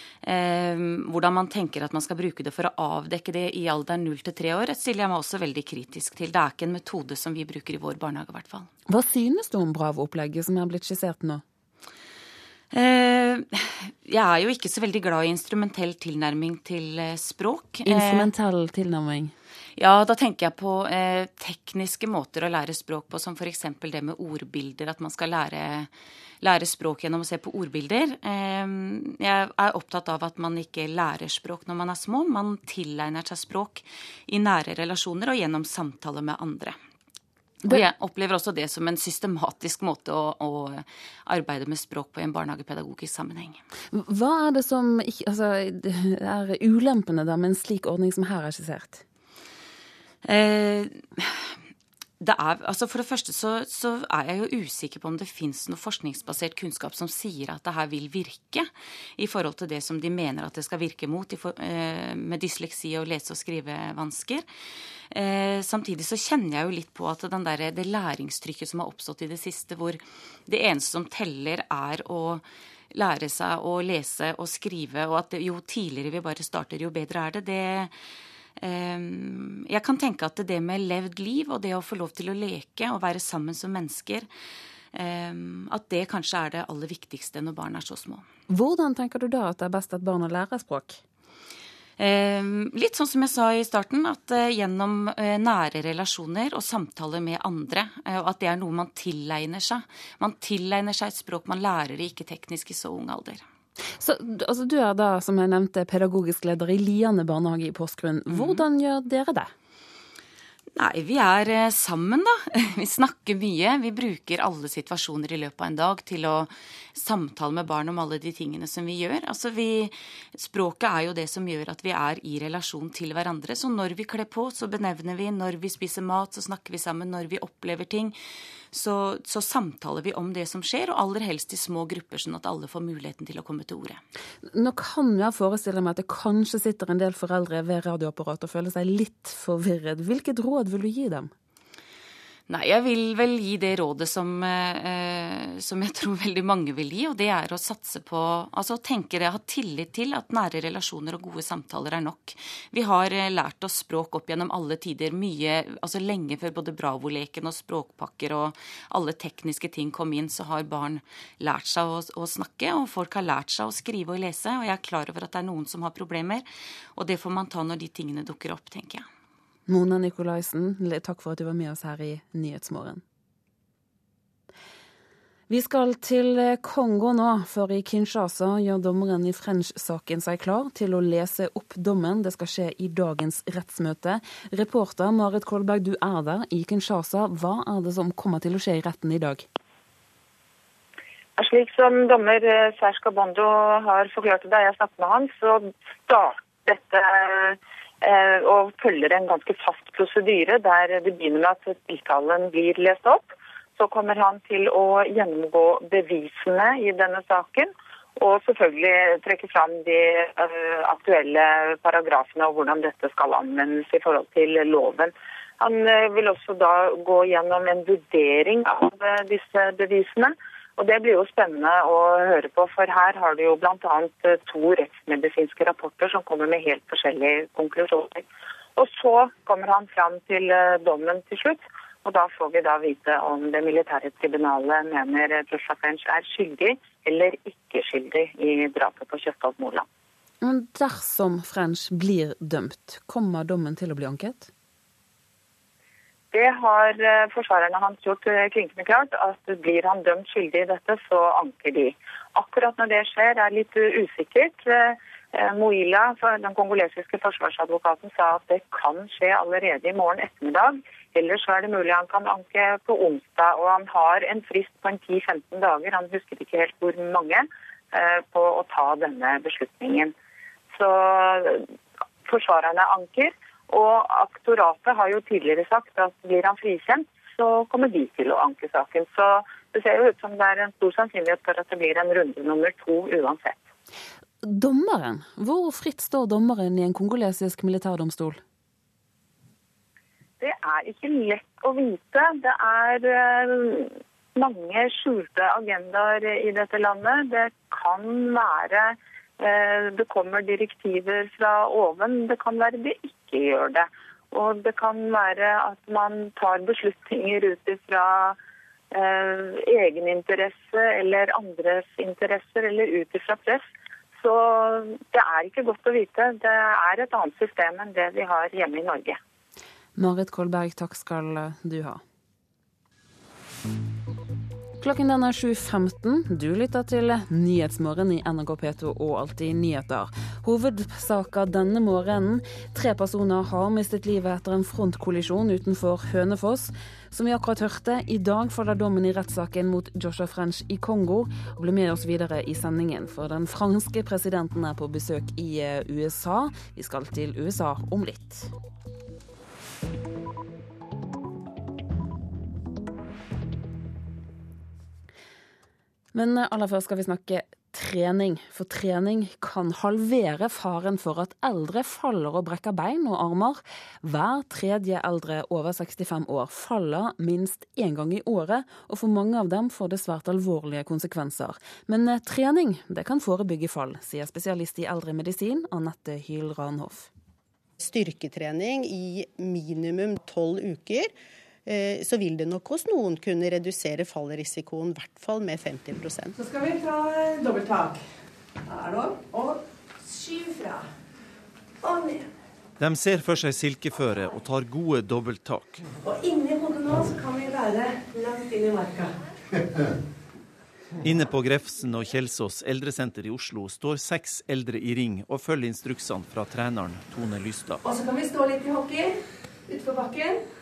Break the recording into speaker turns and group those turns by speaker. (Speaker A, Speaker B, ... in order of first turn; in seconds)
Speaker A: 0.2-8.7, 12.7-18.3, 19.8-25.9, 26.4-36.8, 37.6-43.6, 50.2-51.5, 52.2-64.5, 65.1-77.9, 78.6-84.3, 84.9-88.2, 92.0-103.4, 108.3-108.6, 110.8-128.2, 128.7-134.0, 142.5-169.1
Speaker B: 8.9-11.4, 17.9-19.3, 43.9-49.0, 88.5-91.0, 104.0-109.5, 134.5-141.3, 169.7-173.0, 175.5-189.4, 240.4-244.5, 284.4-288.4, 319.9-322.0, 324.8-348.5, 356.1-377.1
Speaker C: 191.4-228.2, 228.8-239.8, 246.3-270.1, 270.7-271.6, 272.2-283.6, 290.4-308.4, 308.9-313.6, 314.2-319.2
Speaker D: 377.8-381.1, 381.6-386.3
Speaker E: 386.4-388.0, 388.7-390.8, 391.8-392.2, 396.0-399.1, 407.8-410.4
Speaker F: 392.8-395.8, 401.5-407.8